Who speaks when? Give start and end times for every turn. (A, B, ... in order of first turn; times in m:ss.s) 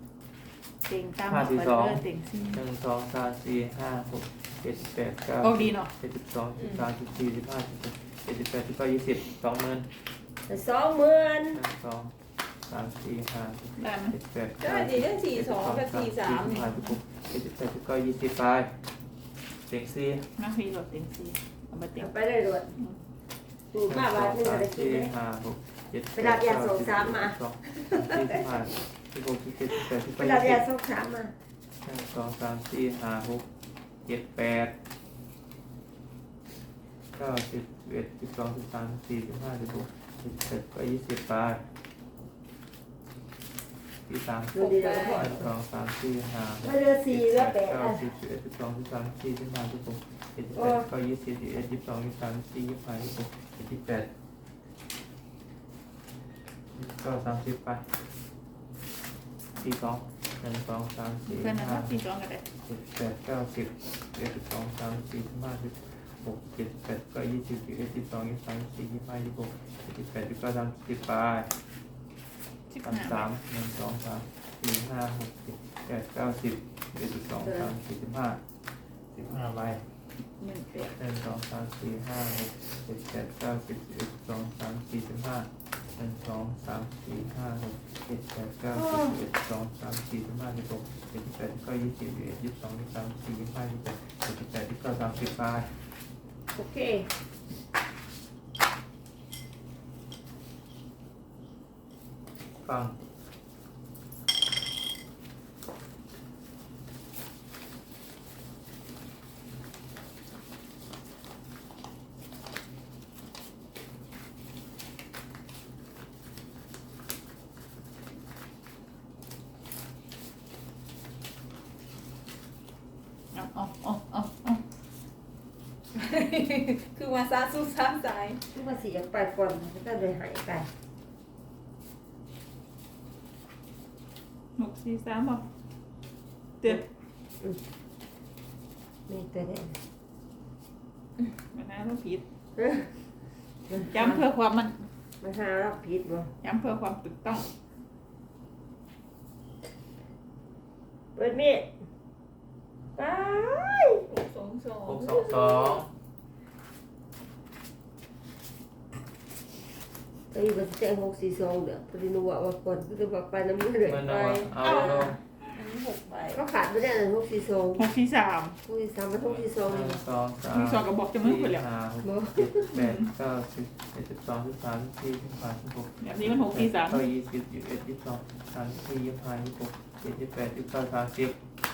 0:00.8-0:02.6 A
0:01.3-0:09.9 B
0:05.4-0:05.9 A
0:10.5-0:11.6 C
0:11.5-0:12.1 B
0:12.7-0:18.7 B
0:13.8-0:14.1 A
0:14.6-0:16.7 D
0:19.7-0:20.3 B
0:20.4-0:22.1 A
0:22.0-0:22.7 C
0:23.7-0:25.1 C
0:23.9-0:30.6 B
0:26.1-0:28.7 C
0:30.0-0:31.3 C
0:31.8-0:33.4 B
0:34.1-0:34.7 B
0:37.1-0:41.6 B
0:44.1-0:54.1 B
0:44.5-0:45.5 C
0:44.6-0:45.3 D
0:46.6-0:48.1 C
0:50.6-0:50.9 C
0:56.7-0:57.9 B
0:59.6-1:02.0 B
1:01.3-1:02.4 A
1:02.6-1:11.5 B
1:12.7-1:13.3 A
1:12.8-1:18.4 B
1:17.4-1:17.7 C
1:19.1-1:19.8 B
1:20.4-1:21.0 A
1:21.0-1:35.7 B
1:36.5-1:37.1 C
1:42.6-1:43.0 B
2:03.3-2:04.6 A
2:05.9-2:08.4 D
2:08.5-2:10.7 C
2:14.6-2:15.4 A
2:19.1-2:19.8 C
2:21.5-2:22.2 A
2:22.6-2:23.0 C
2:23.7-2:24.2 C
2:23.8-2:24.9 A
2:25.2-2:26.3 C
2:26.4-2:27.5 A
2:31.2-2:31.7 C
2:33.0-2:34.1 C
2:34.1-2:35.8 D
2:34.9-2:35.9 B
2:40.3-2:45.1 C
2:43.8-2:45.2 B
2:44.8-2:45.1 A
2:45.5-2:46.4 D
2:46.3-2:47.8 C
2:47.8-2:48.6 A
2:48.6-2:50.0 C
2:49.7-3:01.4 B
2:50.5-2:51.6 A
2:52.0-2:52.7 C
2:52.7-2:53.1 A
2:56.0-2:57.0 A